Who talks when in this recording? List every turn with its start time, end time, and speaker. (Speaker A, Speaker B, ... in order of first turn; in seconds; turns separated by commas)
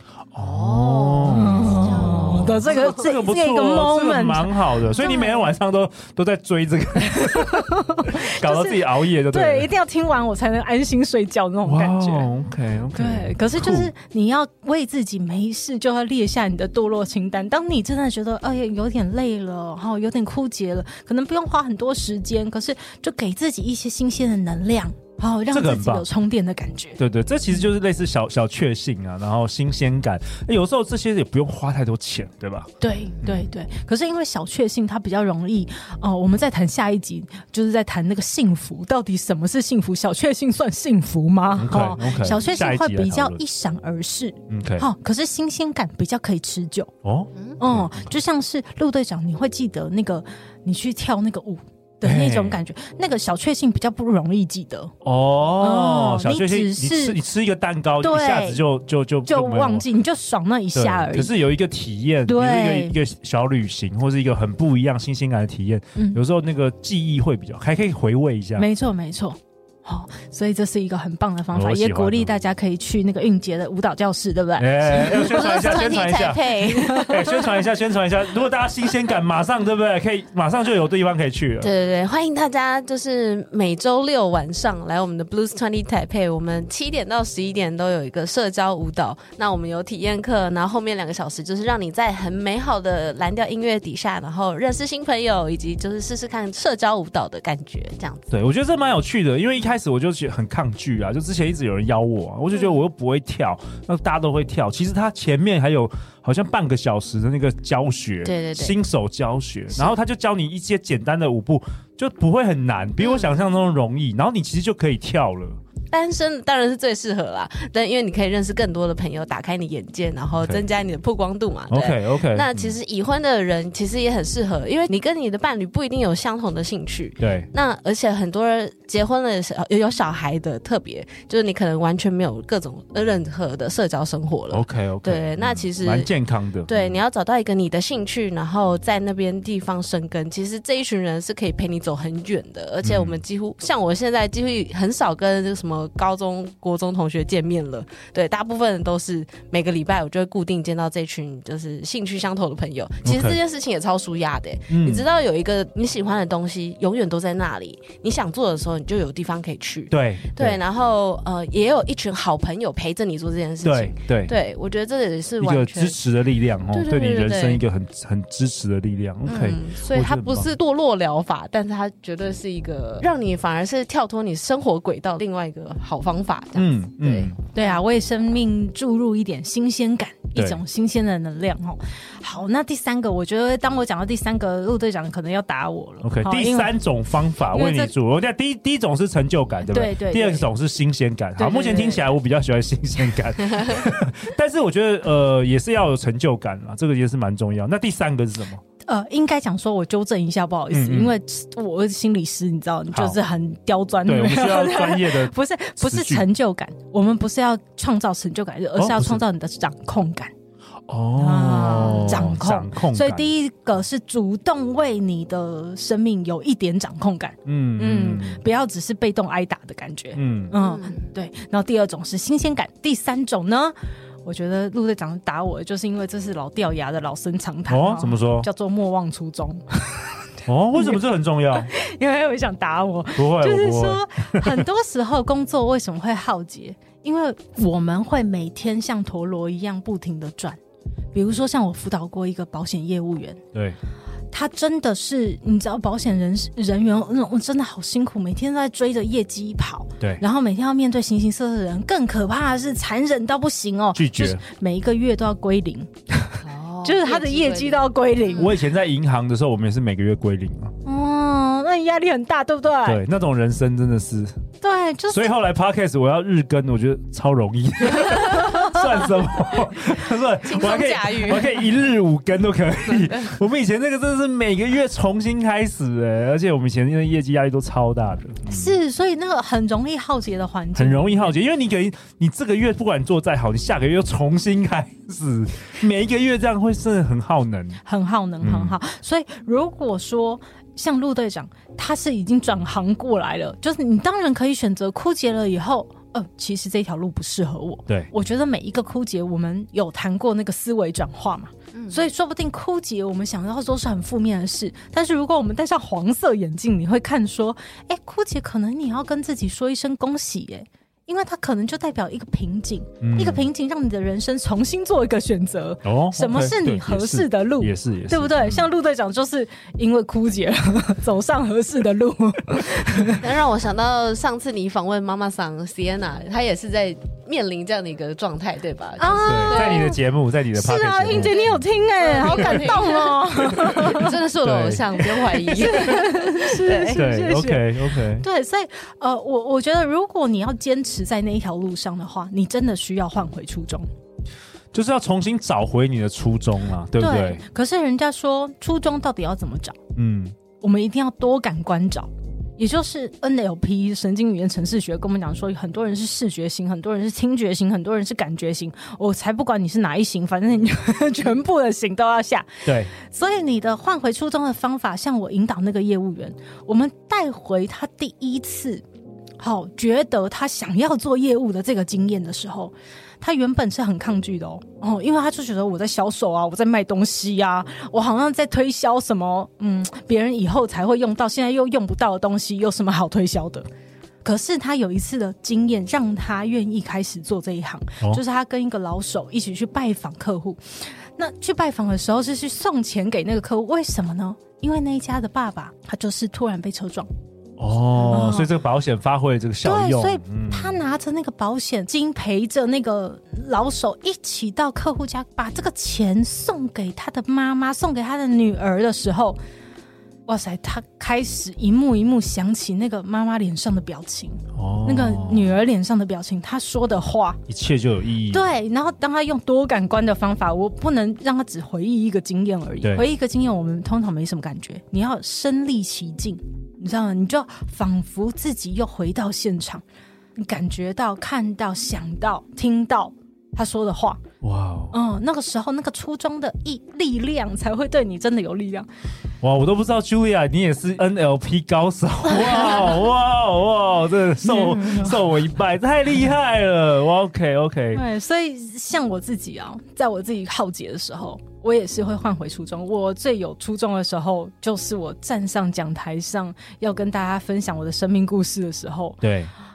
Speaker A: 0.3-9.7, Speaker B: 0.4-2.6, Speaker C: 1.3-5.5, Speaker C: 7.1-12.3, Speaker A: 11.6-13.9, Speaker C: 12.9-27.0, Speaker A: 25.5-26.1, Speaker A: 27.0-32.7, Speaker C: 32.8-46.9, Speaker A: 33.2-33.5, Speaker A: 41.5-43.4, Speaker A: 44.5-44.9, Speaker A: 47.0-48.1, Speaker C: 47.6-54.9, Speaker A: 52.0-52.6, Speaker A: 55.0-59.9, Speaker C: 55.6-57.2, Speaker C: 58.0-58.6, Speaker C: 59.2-61.3, Speaker A: 60.7-68.7, Speaker C: 62.3-62.9, Speaker C: 66.0-66.2, Speaker C: 68.6-75.8, Speaker A: 71.5-72.3, Speaker A: 74.6-81.7, Speaker B: 74.9-77.3, Speaker C: 76.7-77.6, Speaker B: 81.6-98.3, Speaker A: 98.3-115.6, Speaker B: 108.2-108.8, Speaker B: 113.0-113.4, Speaker B: 115.9-136.1, Speaker A: 121.7-122.8, Speaker A: 127.2-127.5, Speaker A: 134.5-137.0, Speaker B: 136.7-166.0, Speaker A: 142.8-143.2, Speaker A: 153.0-153.4, Speaker A: 154.7-155.1, Speaker A: 159.9-160.6, Speaker A: 163.6-164.3, Speaker A: 165.4-170.5, Speaker B: 166.7-167.6, Speaker B: 169.2-177.7, Speaker A: 176.6-177.4, Speaker C: 177.5-186.8, Speaker A: 180.3-180.6, Speaker A: 186.0-198.6, Speaker C: 187.5-187.9, Speaker C: 189.7-190.5, Speaker C: 191.3-192.0, Speaker C: 198.9-210.3, Speaker A: 200.7-201.1, Speaker A: 202.9-203.2, Speaker A: 204.1-206.2, Speaker A: 208.8-209.2, Speaker A: 210.9-213.3, Speaker C: 211.2-240.6, Speaker A: 217.4-218.4, Speaker A: 220.1-220.5, Speaker B: 220.5-221.0, Speaker A: 227.7-228.5, Speaker A: 230.4-231.7, Speaker A: 233.2-234.7, Speaker C: 241.1-243.4, Speaker C: 244.3-258.5, Speaker A: 253.9-254.4, Speaker B: 256.4-258.5, Speaker A: 258.4-260.7, Speaker C: 260.8-263.0, Speaker A: 262.8-264.3, Speaker C: 264.6-265.3, Speaker A: 265.1-278.8, Speaker C: 268.3-268.8, Speaker B: 270.4-271.6, Speaker B: 273.0-273.3, Speaker C: 278.5-281.3, Speaker A: 280.8-287.8, Speaker C: 287.8-323.2, Speaker A: 288.4-288.8, Speaker B: 301.7-302.0, Speaker A: 313.0-313.4, Speaker A: 315.8-318.7, Speaker B: 323.2-329.9, Speaker C: 329.0-330.0, Speaker A: 329.2-331.6, Speaker C: 330.5-334.1, Speaker B: 331.1-337.0, Speaker A: 332.3-332.6, Speaker A: 333.5-336.2, Speaker C: 335.5-343.9, Speaker A: 336.9-338.2, Speaker A: 344.7-347.4, Speaker C: 347.0-349.8, Speaker A: 349.9-350.4, Speaker C: 350.6-368.8, Speaker A: 362.6-362.9, Speaker C: 369.4-383.6, Speaker C: 384.2-397.1, Speaker A: 397.6-400.8, Speaker C: 398.0-398.5, Speaker C: 399.6-409.4, Speaker C: 410.3-417.4, Speaker A: 414.5-415.5, Speaker A: 417.5-418.4, Speaker C: 418.3-429.8, Speaker C: 430.4-434.2, Speaker A: 434.4-434.9, Speaker C: 434.9-438.9, Speaker A: 439.4-448.0, Speaker C: 442.3-442.9, Speaker C: 444.4-445.2, Speaker C: 447.9-459.2, Speaker A: 459.2-459.5